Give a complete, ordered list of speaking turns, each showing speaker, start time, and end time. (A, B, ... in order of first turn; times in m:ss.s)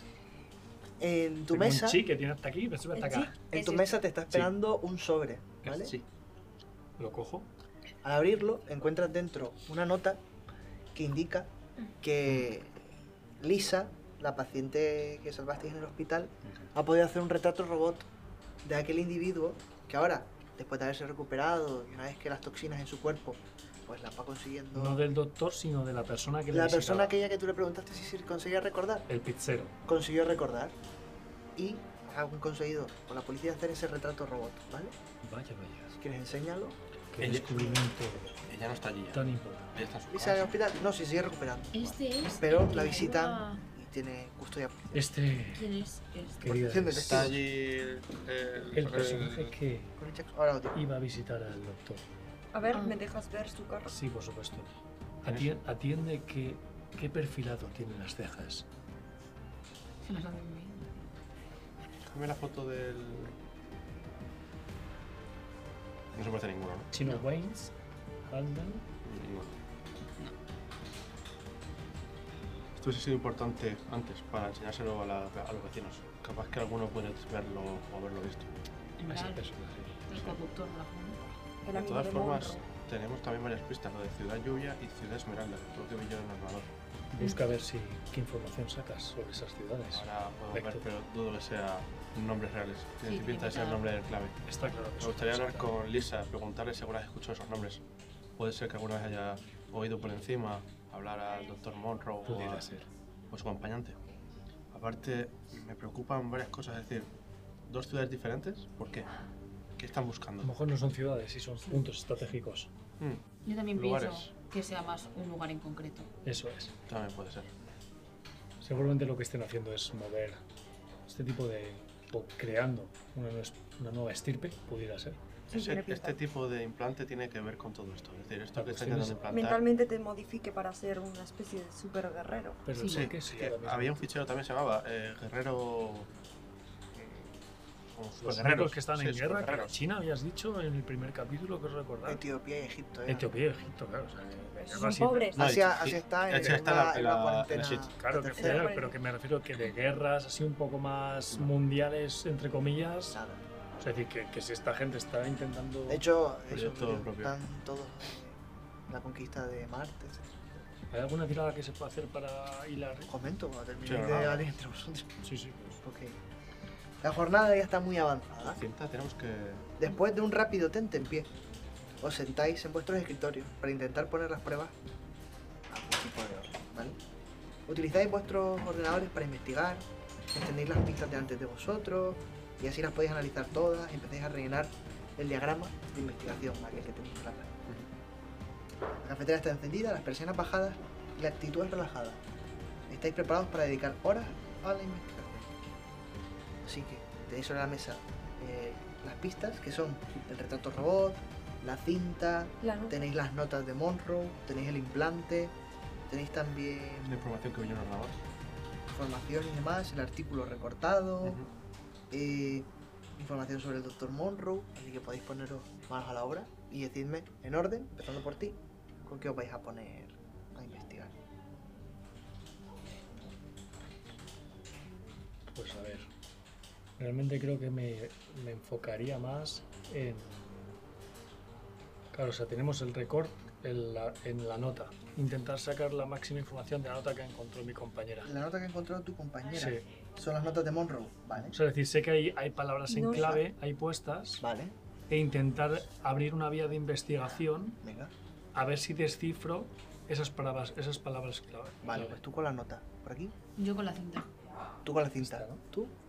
0:01.0-0:02.0 A
0:01.5-0:03.3 B
0:03.0-0:04.0 C
0:03.5-0:05.9 A
0:05.6-0:06.0 D
0:07.0-0:07.5 B
0:08.0-0:10.2 A
0:10.9-0:12.8 A
0:13.4-0:18.1 A
0:18.6-0:25.0 A
0:24.7-0:27.2 B
0:26.5-0:29.1 A
0:29.1-0:29.8 B
0:29.9-0:30.8 A
0:31.6-0:35.0 A
0:35.2-0:35.9 B
0:35.9-0:36.8 A
0:37.1-0:38.4 B
0:37.2-0:37.7 D
0:38.5-0:39.2 D
0:39.1-0:39.7 B
0:39.8-0:40.5 D
0:40.1-0:45.0 A
0:41.7-0:43.6 E
0:44.9-0:45.6 B
0:45.5-0:46.7 E
0:46.4-0:47.4 B
0:46.5-0:47.4 A
0:47.0-0:49.5 D
0:48.8-0:49.9 B
0:50.0-0:50.8 A
0:50.7-0:52.1 B
0:52.5-0:53.9 C
0:52.7-0:53.0 E
0:53.9-0:58.7 B
0:55.3-0:55.6 D
1:00.0-1:01.1 E
1:02.0-1:03.4 D
1:06.1-1:06.9 D
1:06.9-1:07.7 B
1:08.3-1:08.9 B
1:09.0-1:09.6 D
1:12.8-1:18.5 D
1:19.0-1:19.5 E
1:19.1-1:20.3 B
1:20.1-1:21.3 E
1:21.6-1:22.6 C
1:21.7-1:26.7 D
1:27.1-1:30.9 B
1:27.2-1:27.5 E
1:29.9-1:34.4 D
1:33.0-1:33.9 E
1:34.5-1:35.7 B
1:35.0-1:37.8 D
1:38.4-1:42.7 D
1:42.2-1:42.9 B
1:43.3-1:44.0 D
1:44.7-1:47.1 D
1:47.7-1:49.1 D
1:49.8-1:50.5 D
1:50.4-1:52.7 B
1:53.4-1:56.1 E
1:53.7-1:54.3 D
1:56.2-1:56.7 B
1:56.9-1:57.5 D
1:58.6-2:00.4 B
2:01.1-2:05.2 B
2:05.5-2:09.6 D
2:05.5-2:06.2 C
2:08.6-2:09.3 B
2:09.3-2:12.6 C
2:12.6-2:14.1 B
2:12.8-2:13.1 E
2:12.9-2:16.1 D
2:17.0-2:17.2 A
2:17.9-2:19.7 D
2:18.2-2:22.2 B
2:22.0-2:23.3 A
2:23.1-2:25.4 B
2:24.6-2:25.4 C
2:25.4-2:28.7 A
2:25.4-2:27.9 D
2:28.0-2:33.2 B
2:28.4-2:28.9 C
2:33.1-2:33.4 A
2:33.8-2:36.0 B
2:35.9-2:40.7 A
2:36.5-2:37.4 D
2:40.9-2:43.1 B
2:43.1-2:45.2 A
2:43.8-2:44.5 D
2:45.2-2:45.8 B
2:45.8-2:46.2 A
2:47.0-2:48.6 A
2:48.4-2:49.7 D
2:49.8-2:51.3 A
2:52.0-2:54.8 A
2:55.7-2:57.0 A
2:57.7-3:07.6 A
3:09.0-3:12.2 A
3:12.9-3:15.5 A
3:16.6-3:25.6 A
3:22.6-3:23.1 C
3:26.1-3:27.2 A
3:27.0-3:28.2 D
3:28.9-3:31.4 A
3:31.2-3:31.5 D
3:32.1-3:41.2 A
3:45.5-3:46.1 B
3:47.0-3:50.7 B
3:52.1-3:58.3 B
3:58.2-4:01.6 A
3:59.5-3:59.8 B
4:01.4-4:04.4 B
4:02.9-4:03.4 C
4:03.1-4:03.4 A
4:04.4-4:04.8 A
4:05.1-4:07.8 B
4:07.8-4:08.1 A
4:08.6-4:12.2 B
4:11.8-4:13.4 A
4:13.6-4:14.3 E
4:14.8-4:16.0 A
4:15.2-4:15.6 B